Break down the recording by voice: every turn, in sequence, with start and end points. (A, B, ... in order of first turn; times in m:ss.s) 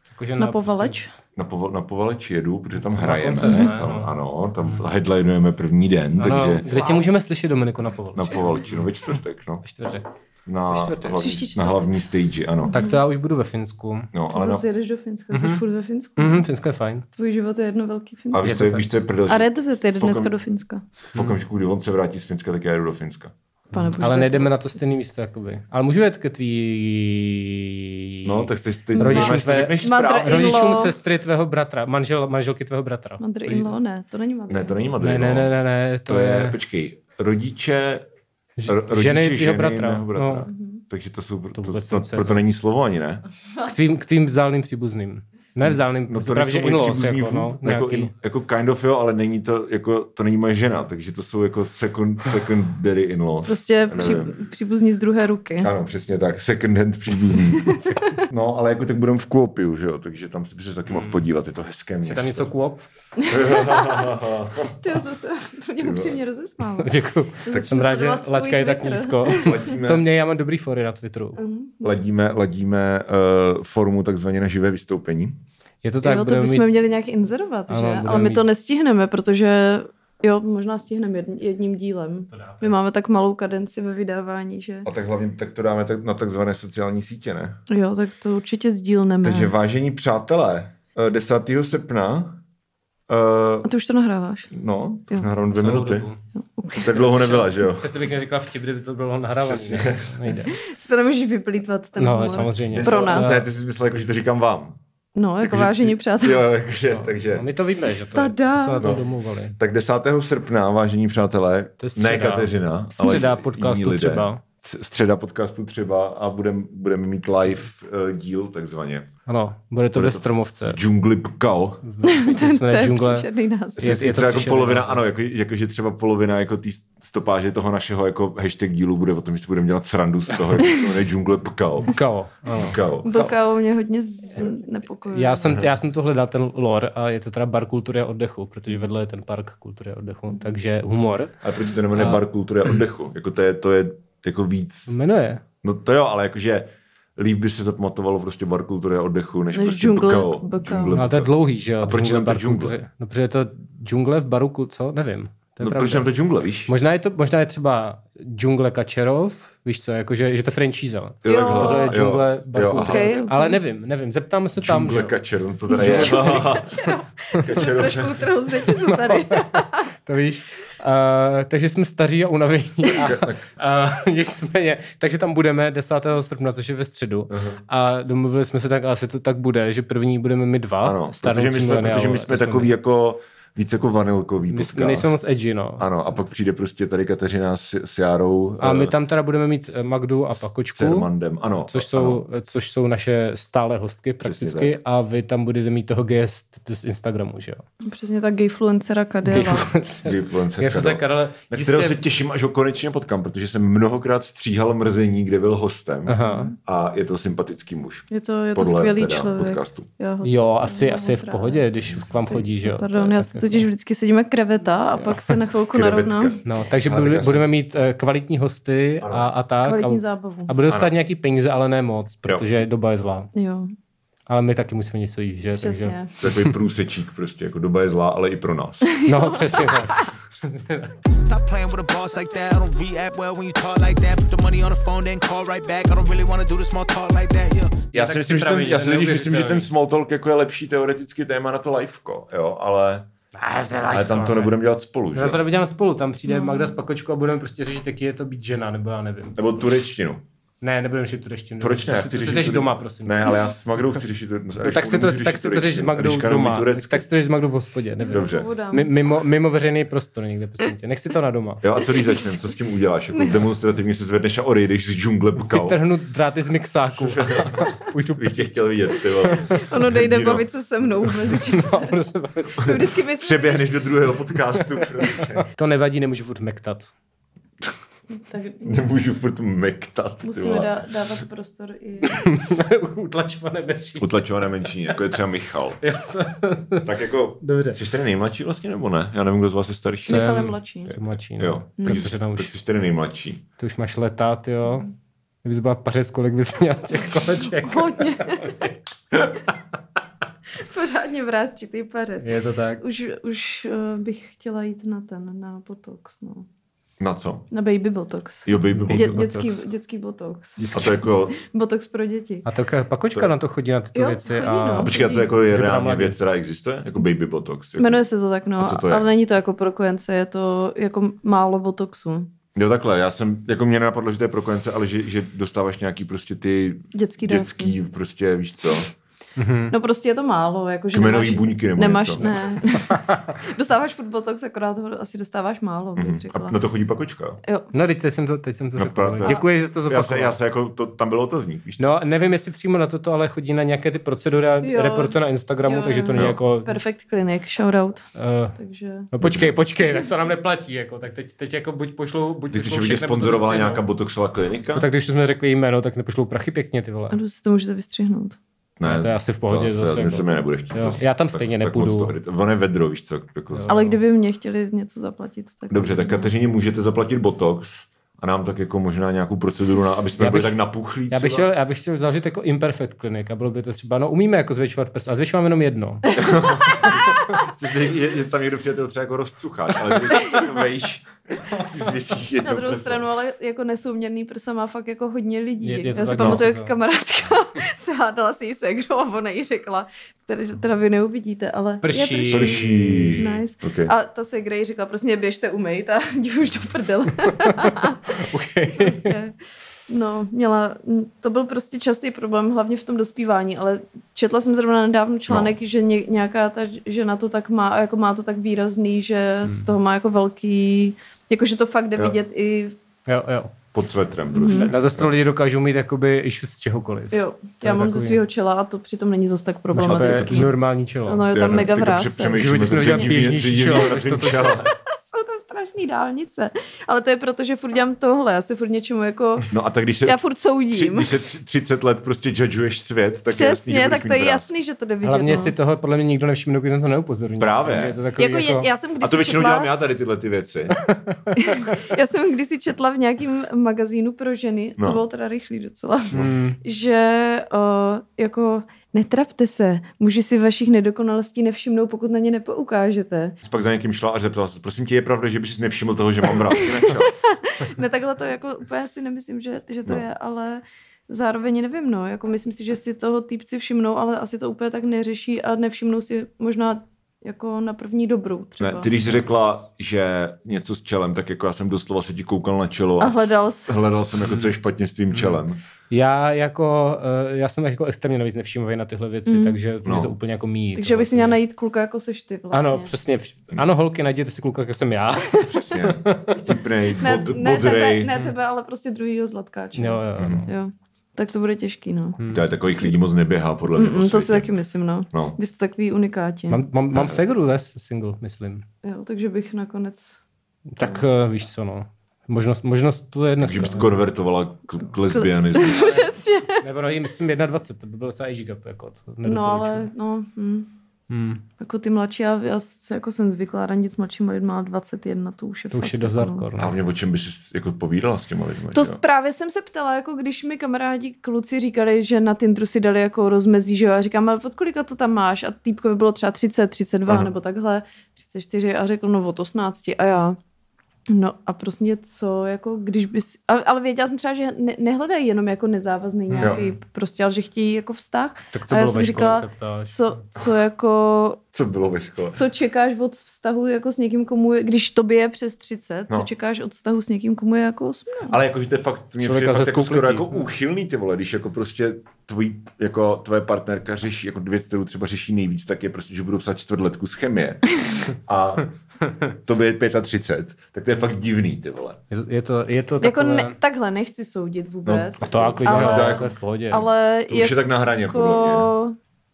0:00.1-0:01.0 A
0:00.4-0:01.1 B
0:01.4-0:06.7 C
0:02.9-0:04.8 A
0:03.4-0:03.7 B
0:06.2-0:10.1 A
0:06.7-0:07.0 B
0:08.1-0:09.6 C
0:10.5-0:12.8 C
0:10.7-0:11.4 A
0:11.2-0:12.0 B
0:12.7-0:13.0 B
0:12.7-0:14.1 A
0:14.1-0:14.6 C
0:14.3-0:16.5 B
0:15.3-0:15.6 A
0:16.2-0:17.1 A
0:17.2-0:18.5 B
0:18.3-0:20.3 C
0:18.4-0:18.9 A
0:19.3-0:20.8 B
0:21.1-0:23.3 C
0:23.7-0:33.7 A
0:23.7-0:24.9 B
0:28.2-0:30.9 C
0:29.0-0:31.0 B
0:33.2-0:34.8 B
0:34.5-0:35.5 C
0:35.0-0:36.6 A
0:36.0-0:38.1 C
0:38.6-0:40.5 A
0:38.7-0:43.2 C
0:40.5-0:40.8 B
0:41.6-0:42.4 A
0:43.6-0:48.1 A
0:45.6-0:54.3 C
0:53.5-0:55.7 B
0:55.6-1:02.5 C
0:57.5-0:58.2 B
1:00.9-1:01.2 A
1:02.0-1:02.9 A
1:03.2-1:04.2 B
1:03.3-1:05.0 C
1:04.7-1:06.9 B
1:05.8-1:06.2 C
1:06.8-1:11.4 A
1:07.4-1:09.8 B
1:09.4-1:10.1 C
1:11.4-1:11.9 B
1:11.8-1:15.4 C
1:15.8-1:16.7 A
1:16.0-1:24.9 B
1:17.7-1:18.4 A
1:22.3-1:22.7 A
1:24.8-1:27.6 C
1:27.7-1:29.5 B
1:29.2-1:32.4 C
1:33.1-1:33.7 C
1:33.6-1:34.5 B
1:34.5-1:36.1 C
1:35.6-1:36.2 A
1:36.4-1:37.0 B
1:36.8-1:37.9 C
1:37.0-1:40.6 A
1:39.4-1:40.4 C
1:40.5-1:43.4 B
1:42.0-1:43.4 A
1:42.7-1:44.8 C
1:45.2-1:46.4 B
1:45.4-1:47.5 C
1:46.9-1:49.6 A
1:48.2-1:48.9 B
1:48.8-1:49.0 C
1:49.6-1:59.1 C
1:51.8-1:54.4 A
1:59.3-2:00.8 A
1:59.9-2:01.8 C
2:01.8-2:03.3 A
2:02.0-2:03.8 B
2:03.8-2:12.0 C
2:03.8-2:05.1 A
2:11.9-2:13.3 A
2:12.6-2:13.1 C
2:13.0-2:15.6 B
2:15.1-2:21.3 A
2:21.4-2:25.0 C
2:21.9-2:22.2 A
2:24.9-2:25.4 A
2:25.6-2:32.8 C
2:29.5-2:31.0 B
2:30.9-2:36.1 A
2:35.6-2:36.7 C
2:36.7-2:45.2 A
2:41.2-2:43.1 C
2:41.3-2:41.9 B
2:42.7-2:43.6 B
2:44.6-2:46.8 C
2:45.7-2:49.8 B
2:45.8-2:47.4 A
2:47.4-2:48.3 C
2:48.7-3:02.7 A
2:53.0-2:53.4 C
2:57.3-2:57.6 C
3:00.8-3:05.2 C
3:04.5-3:05.8 A
3:05.8-3:08.9 C
3:08.6-3:11.1 A
3:10.4-3:12.2 C
3:11.7-3:17.6 A
3:14.2-3:14.8 C
3:17.8-3:19.7 B
3:19.2-3:22.0 A
3:20.0-3:29.9 C
3:26.1-3:26.5 A
3:26.2-3:26.6 B
3:28.1-3:36.4 B
3:30.2-3:33.7 A
3:35.0-3:35.3 A
3:35.7-3:37.5 C
3:36.4-3:43.3 A
3:39.0-3:39.3 C
3:39.6-3:40.5 B
3:40.7-3:40.9 C
3:43.3-3:43.7 B
3:44.3-3:46.5 A
3:45.6-3:46.1 B
3:46.2-3:48.9 C
3:49.0-3:50.0 B
3:49.0-3:50.9 A
3:51.2-3:57.9 D
3:57.9-4:03.1 C
3:57.9-3:59.7 A
4:03.4-4:04.6 A
4:03.9-4:05.4 C
4:05.1-4:09.4 A
4:06.3-4:06.8 B
4:09.4-4:10.2 C
4:10.6-4:13.4 A
4:11.6-4:17.1 C
4:14.6-4:21.6 A
4:18.0-4:18.9 B
4:18.1-4:18.5 C
4:21.6-4:25.8 C
4:21.9-4:22.3 B
4:23.1-4:23.4 B
4:25.4-4:28.6 A
4:26.9-4:30.5 C
4:29.4-4:32.0 B
4:31.0-4:31.4 C
4:31.5-4:32.7 A
4:32.6-4:33.7 B
4:32.6-4:35.5 C
4:34.8-4:36.9 A
4:38.1-4:38.9 B
4:38.6-4:40.8 C
4:40.2-4:42.3 B
4:42.1-4:44.2 A
4:44.0-4:45.8 C
4:45.8-4:46.9 A
4:46.8-4:50.2 C
4:47.4-4:47.8 A
4:50.1-4:51.0 B
4:50.1-4:52.5 A
4:51.4-4:53.4 C
4:53.6-4:54.9 A
4:55.4-4:58.8 A
4:57.5-4:58.6 B
5:00.6-5:06.5 B
5:02.2-5:02.8 A
5:07.0-5:07.5 C
5:07.5-5:12.5 B
5:08.5-5:09.6 C
5:08.7-5:09.4 A
5:10.6-5:10.9 A
5:10.7-5:11.4 C
5:12.4-5:16.2 A
5:14.0-5:15.3 B
5:14.8-5:18.0 C
5:17.8-5:22.3 B
5:18.6-5:19.1 C
5:22.6-5:28.9 C
5:26.9-5:27.8 B
5:29.4-5:29.8 A
5:29.7-5:36.6 B
5:30.9-5:32.4 C
5:32.2-5:33.3 A
5:36.0-5:37.4 C
5:37.4-5:37.7 B
5:37.7-5:40.4 A
5:38.8-5:41.9 C
5:41.8-5:46.7 A
5:44.6-5:48.1 B
5:48.2-5:48.6 A
5:48.6-5:49.1 B
5:49.1-5:53.8 A
5:49.2-5:49.6 C
5:52.5-5:54.9 C
5:54.7-5:57.2 A
5:57.1-5:58.4 B
5:58.8-6:03.7 C
5:58.8-6:02.1 A
6:03.5-6:04.0 A
6:03.7-6:06.3 B
6:05.7-6:11.5 C
6:10.2-6:10.6 A
6:11.1-6:16.2 A
6:16.1-6:17.0 B
6:16.2-6:23.1 C
6:22.4-6:38.2 B
6:25.6-6:26.7 A
6:26.2-6:26.4 C
6:31.8-6:32.6 A
6:32.3-6:33.9 C
6:37.4-6:39.2 A
6:38.8-6:39.4 B
6:39.9-6:52.8 B
6:49.4-6:49.7 A
6:53.1-6:53.5 A
6:53.7-6:55.1 C
6:54.3-6:54.7 B
6:54.5-6:58.2 A
6:57.1-7:00.5 B
6:59.7-7:01.3 A
6:59.9-7:00.5 C
7:01.0-7:03.1 B
7:01.3-7:04.7 C
7:02.3-7:04.6 A
7:04.7-7:09.5 B
7:09.5-7:10.2 C
7:10.0-7:11.1 B
7:10.7-7:14.5 C
7:13.3-7:15.5 B
7:15.0-7:18.7 A
7:17.4-7:18.0 C
7:18.2-7:19.7 B
7:19.0-7:20.8 C
7:20.9-7:21.8 A
7:21.4-7:33.4 B
7:26.1-7:26.6 A
7:33.4-7:37.1 C
7:36.5-7:48.9 B
7:48.6-7:55.6 C
7:53.0-7:53.8 B
7:55.1-8:01.4 A
7:59.3-7:59.6 B
7:59.8-8:00.1 C
8:00.8-8:02.9 B
8:02.5-8:06.4 A
8:05.5-8:08.1 C
8:07.0-8:12.2 B
8:09.8-8:10.5 A
8:10.2-8:10.5 C
8:12.2-8:12.4 A
8:12.3-8:14.5 C
8:13.8-8:16.6 B
8:16.5-8:18.6 A
8:16.9-8:17.2 C
8:18.8-8:20.2 B
8:20.7-8:24.0 A
8:23.4-8:26.1 C
8:25.1-8:26.6 B
8:25.6-8:29.9 A
8:29.2-8:30.7 B
8:31.1-8:31.4 A
8:31.6-8:36.5 B
8:35.7-8:36.7 A
8:36.6-8:39.0 C
8:38.7-8:50.4 B
8:51.1-9:01.4 B
8:56.3-8:56.8 A
8:58.5-9:00.1 A
9:01.5-9:02.4 C
9:02.3-9:08.4 B
9:08.3-9:18.7 C
9:09.2-9:10.5 A
9:19.4-9:22.0 C
9:22.1-9:23.6 A
9:23.0-9:29.0 B
9:24.9-9:28.7 C
9:25.2-9:26.8 A